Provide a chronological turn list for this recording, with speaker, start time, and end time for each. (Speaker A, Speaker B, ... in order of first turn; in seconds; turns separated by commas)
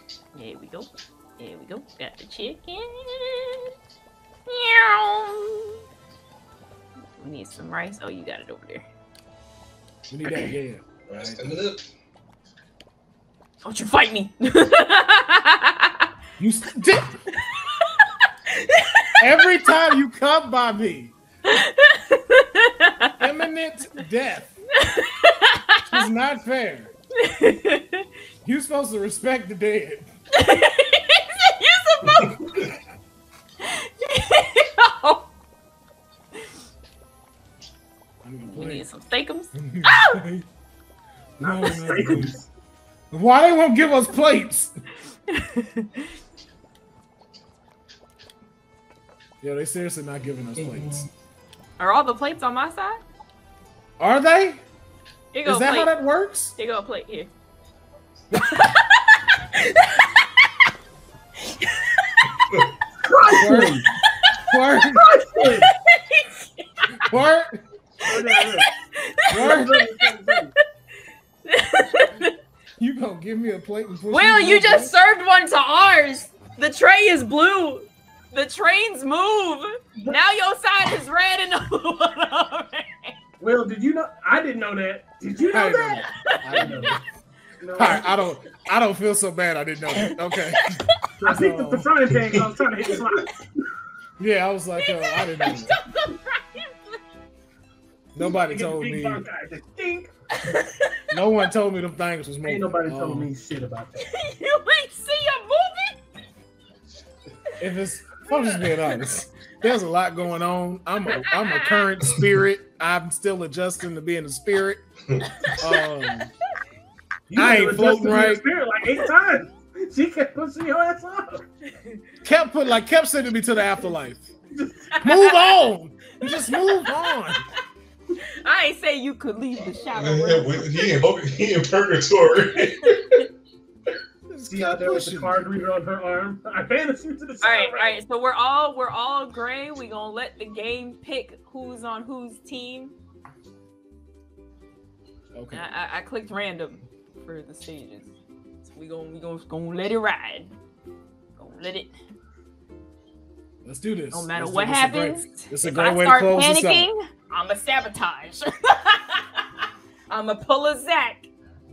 Speaker A: 0.3-3.7, Speaker A: 4.5-5.7, Speaker A: 7.2-8.8, Speaker B: 10.1-11.4, Speaker C: 11.1-11.8, Speaker A: 13.6-15.9, Speaker B: 16.4-17.2, Speaker A: 17.3-19.2, Speaker B: 19.2-21.1, Speaker A: 21.5-23.1, Speaker B: 23.2-24.6, Speaker A: 24.8-26.0, Speaker B: 25.8-26.9, Speaker A: 27.2-28.0, Speaker B: 28.4-30.1, Speaker A: 30.4-32.7, Speaker A: 33.6-35.3, Speaker B: 38.2-38.9, Speaker A: 38.5-40.2, Speaker B: 39.5-40.5, Speaker D: 41.4-42.5, Speaker B: 41.4-42.3, Speaker B: 43.1-44.7, Speaker A: 45.3-46.1, Speaker B: 49.4-51.1, Speaker C: 50.5-51.1, Speaker A: 51.8-53.0, Speaker B: 54.0-54.6, Speaker A: 55.3-55.9, Speaker B: 55.4-56.5, Speaker A: 56.6-57.3, Speaker A: 58.3-60.3, Speaker A: 61.5-62.3, Speaker D: 63.0-63.9, Speaker B: 63.3-63.8, Speaker B: 64.5-65.0, Speaker D: 64.8-65.7, Speaker A: 65.4-66.9, Speaker B: 67.0-67.6, Speaker D: 68.0-68.7, Speaker A: 68.2-69.9, Speaker B: 69.3-69.8, Speaker D: 69.3-70.5, Speaker A: 71.5-72.3, Speaker B: 72.8-74.9, Speaker A: 74.1-83.1, Speaker D: 83.4-86.9, Speaker B: 85.5-87.0, Speaker A: 85.9-87.0, Speaker D: 87.6-88.2, Speaker B: 87.7-91.9, Speaker D: 91.2-93.6, Speaker B: 94.2-95.8, Speaker A: 94.8-97.0, Speaker D: 98.1-100.1, Speaker B: 98.2-99.2, Speaker A: 100.4-101.0, Speaker B: 101.1-103.3, Speaker D: 102.4-104.1, Speaker A: 104.0-106.0, Speaker B: 107.6-114.8, Speaker A: 108.3-109.0, Speaker A: 111.1-111.9, Speaker A: 115.4-115.7, Speaker B: 115.6-116.3, Speaker D: 117.3-121.4, Speaker B: 117.3-118.4, Speaker B: 122.2-124.3, Speaker D: 124.5-124.9, Speaker A: 124.9-125.5, Speaker B: 125.0-127.4, Speaker A: 126.2-127.1, Speaker A: 128.4-130.9, Speaker C: 129.9-133.2, Speaker A: 132.9-133.2, Speaker B: 134.3-135.5, Speaker D: 134.5-138.0, Speaker A: 137.4-142.9, Speaker B: 145.3-145.7, Speaker A: 145.5-148.1, Speaker A: 148.6-150.5, Speaker A: 151.4-151.9, Speaker B: 153.6-156.9, Speaker A: 154.1-159.2, Speaker A: 160.1-161.3